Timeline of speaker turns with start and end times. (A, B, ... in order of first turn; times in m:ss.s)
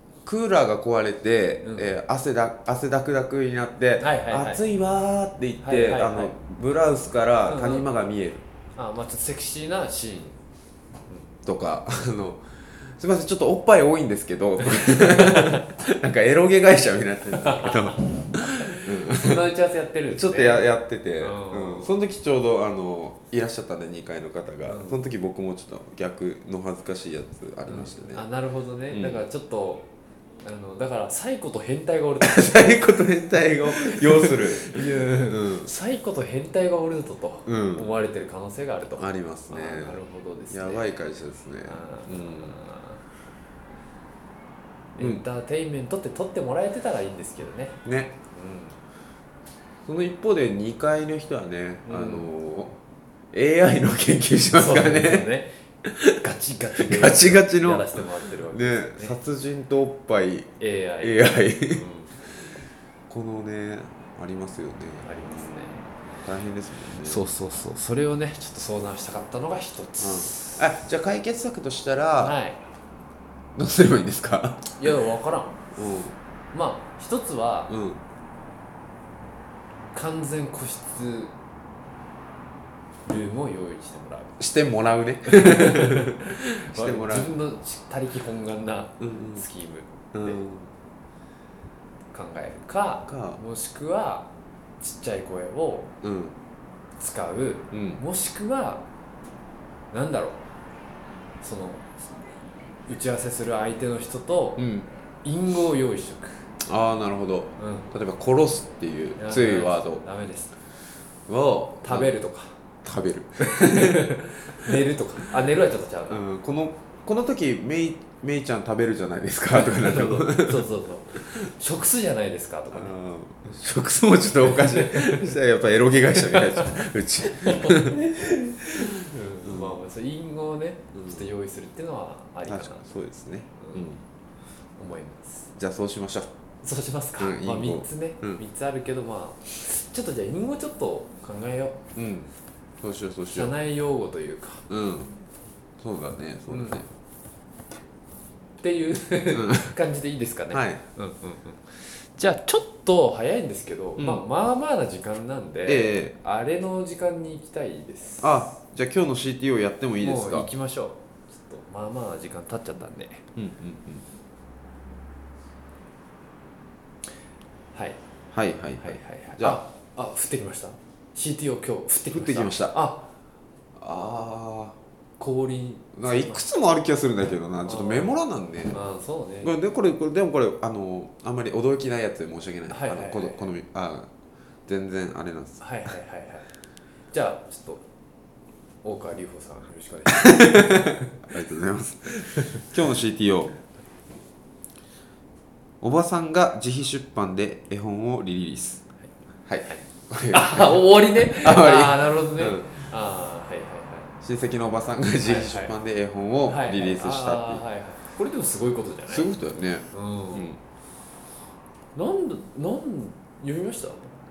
0:00.2-0:08.4 A
0:01.6-0:02.0 B
0:04.0-0:04.6 B
0:05.6-0:06.4 B
0:07.5-0:07.9 B
0:08.8-0:10.4 B
0:11.4-0:19.5 A
0:14.6-0:15.6 B
0:17.4-0:20.7 B
0:20.1-0:28.2 A
0:21.2-0:21.9 B
0:24.7-0:25.0 B
0:27.7-0:29.9 B
0:28.9-0:29.2 A
0:30.4-0:32.7 B
0:32.2-0:35.7 A
0:33.7-0:41.0 B
0:37.5-0:37.9 A
0:39.0-0:42.6 A
0:41.6-0:43.0 B
0:45.0-0:47.8 B
0:45.0-0:45.2 A
0:47.8-0:48.2 A
0:48.3-0:48.8 B
0:49.9-0:52.8 A
0:51.8-0:52.3 B
0:53.3-0:55.3 A
0:54.5-0:59.2 B
0:56.8-1:00.5 A
1:00.6-1:02.1 B
1:01.0-1:01.8 A
1:03.1-1:05.1 A
1:05.0-1:05.9 B
1:06.2-1:07.2 A
1:07.0-1:10.6 B
1:10.0-1:12.4 A
1:12.2-1:12.6 B
1:13.6-1:14.9 A
1:14.8-1:15.6 B
1:15.8-1:16.2 A
1:16.5-1:17.7 B
1:17.7-1:18.0 A
1:19.9-1:21.3 B
1:23.1-1:24.4 B
1:24.4-1:27.4 A
1:25.3-1:30.4 B
1:29.0-1:29.4 A
1:30.1-1:30.7 A
1:32.1-1:34.3 B
1:33.1-1:33.4 A
1:34.8-1:35.9 B
1:36.0-1:36.4 A
1:37.0-1:38.9 B
1:37.7-1:38.0 A
1:39.9-1:40.4 B
1:41.4-1:42.0 B
1:42.9-1:44.7 B
1:44.6-1:44.9 A
1:45.2-1:46.5 B
1:46.6-1:50.0 A
1:47.6-1:47.9 B
1:49.2-1:50.5 B
1:51.3-1:52.1 A
1:51.8-1:52.5 B
1:52.8-1:54.8 A
1:53.4-1:56.2 B
1:56.1-2:00.7 A
1:59.5-2:02.9 B
2:02.7-2:09.8 A
2:04.4-2:05.4 B
2:06.2-2:06.8 B
2:07.4-2:08.1 B
2:08.8-2:12.9 B
2:11.0-2:11.3 A
2:12.5-2:14.0 A
2:13.6-2:13.9 B
2:14.8-2:15.5 B
2:15.6-2:16.3 A
2:16.6-2:21.9 B
2:17.2-2:18.4 A
2:22.0-2:22.3 A
2:22.8-2:23.6 A
2:23.3-2:24.6 B
2:24.7-2:25.1 A
2:25.8-2:26.9 A
2:26.5-2:26.8 B
2:28.6-2:38.5 B
2:29.3-2:29.8 A
2:30.5-2:30.8 A
2:34.0-2:34.2 A
2:35.7-2:36.2 A
2:38.2-2:40.5 A
2:40.0-2:43.2 B
2:43.4-2:44.0 A
2:47.7-2:48.0 B
2:48.3-2:49.6 A
2:48.8-2:53.1 B
2:52.1-2:52.8 A
2:53.8-2:54.8 A
2:55.2-2:56.4 B
2:55.9-2:58.8 A
2:57.6-2:58.2 B
2:58.7-2:59.5 B
2:59.4-3:04.1 A
3:02.7-3:03.5 B
3:04.7-3:05.6 A
3:05.6-3:06.5 B
3:07.1-3:07.8 B
3:08.8-3:11.0 B
3:10.2-3:13.6 A
3:12.2-3:12.7 B
3:15.8-3:18.8 A
3:19.5-3:22.7 A
3:20.3-3:24.1 B
3:24.2-3:27.6 A
3:25.2-3:25.7 B
3:26.5-3:29.3 B
3:29.1-3:30.6 A
3:29.9-3:30.6 B
3:32.0-3:34.1 B